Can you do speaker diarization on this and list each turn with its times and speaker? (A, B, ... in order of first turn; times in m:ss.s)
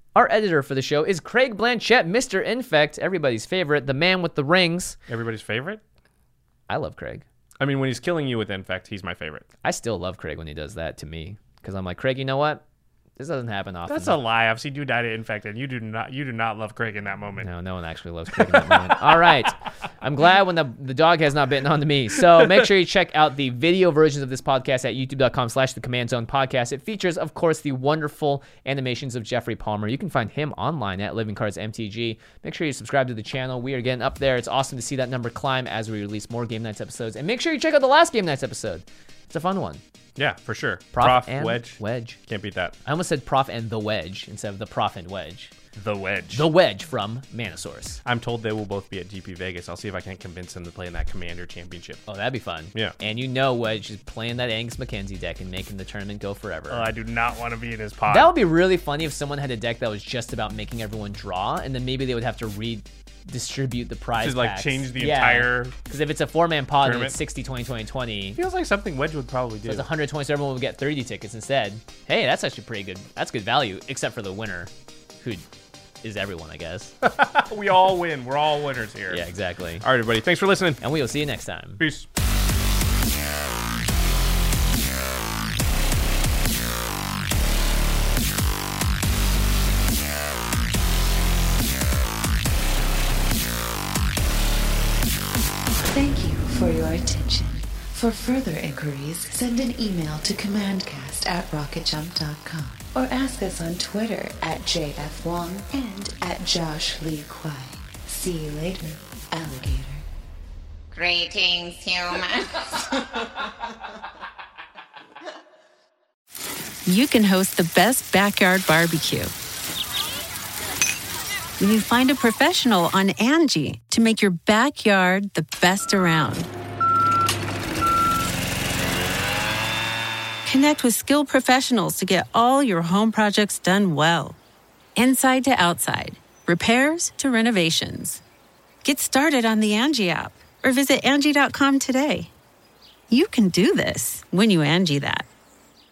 0:00.1-0:05.0 A
0:05.1-0:05.8 B
0:06.7-0:07.2 A
0:07.6-0:09.5 B
0:09.6-0:12.6 A
0:13.2-0:14.2 A
0:13.9-0:17.5 B
0:17.4-0:39.8 A
0:18.4-0:19.0 B
0:40.2-0:42.8 B
0:40.9-0:42.2 A
0:42.8-0:45.5 A
0:45.8-0:46.5 B
0:46.3-0:48.0 A
0:48.0-0:52.0 B
0:52.1-0:56.9 A
0:56.7-0:58.3 B
0:58.1-1:08.4 A
1:04.2-1:05.8 B
1:06.8-1:07.1 B
1:08.4-1:09.8 B
1:09.6-1:15.4 A
1:16.0-1:16.9 A
1:17.0-1:19.2 B
1:19.1-1:19.8 A
1:19.8-1:20.8 B
1:20.8-1:21.8 A
1:21.8-1:22.0 B
1:35.8-1:50.0 C
1:50.9-1:53.2 D
1:56.8-1:59.3 E
2:01.6-2:06.5 E
2:10.4-2:14.4 E
2:15.0-2:18.2 E
2:18.8-2:22.3 E
2:23.1-2:25.2 E